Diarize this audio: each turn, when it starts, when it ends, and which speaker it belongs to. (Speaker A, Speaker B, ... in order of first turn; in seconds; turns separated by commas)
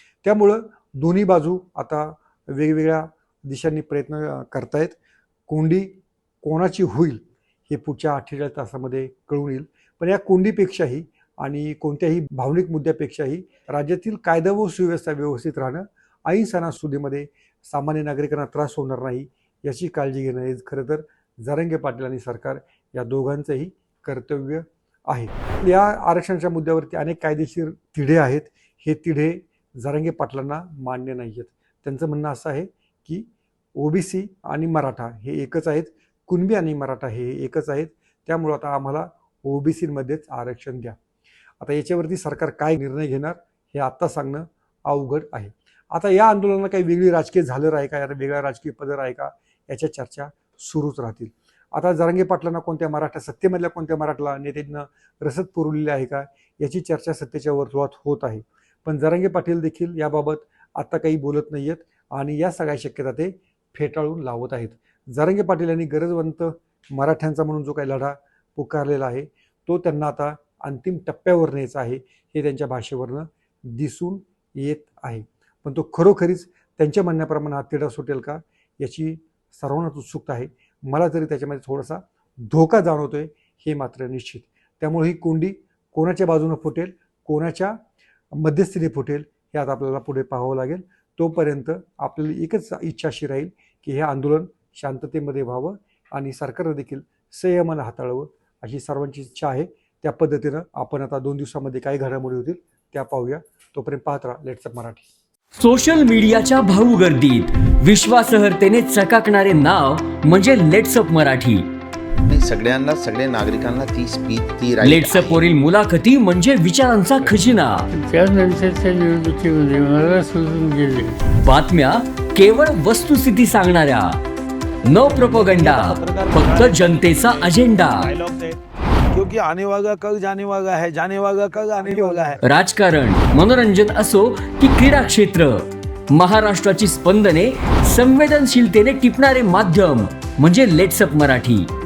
Speaker A: 0.2-5.0, Speaker A: 5.5-41.0, Speaker A: 41.6-87.8, Speaker A: 88.3-105.1, Speaker B: 105.6-111.7, Speaker C: 112.2-115.5, Speaker B: 114.8-117.9, Speaker D: 117.9-121.2, Speaker B: 121.4-124.2, Speaker B: 124.8-128.1, Speaker E: 125.0-128.6, Speaker E: 129.1-132.4, Speaker B: 132.4-141.7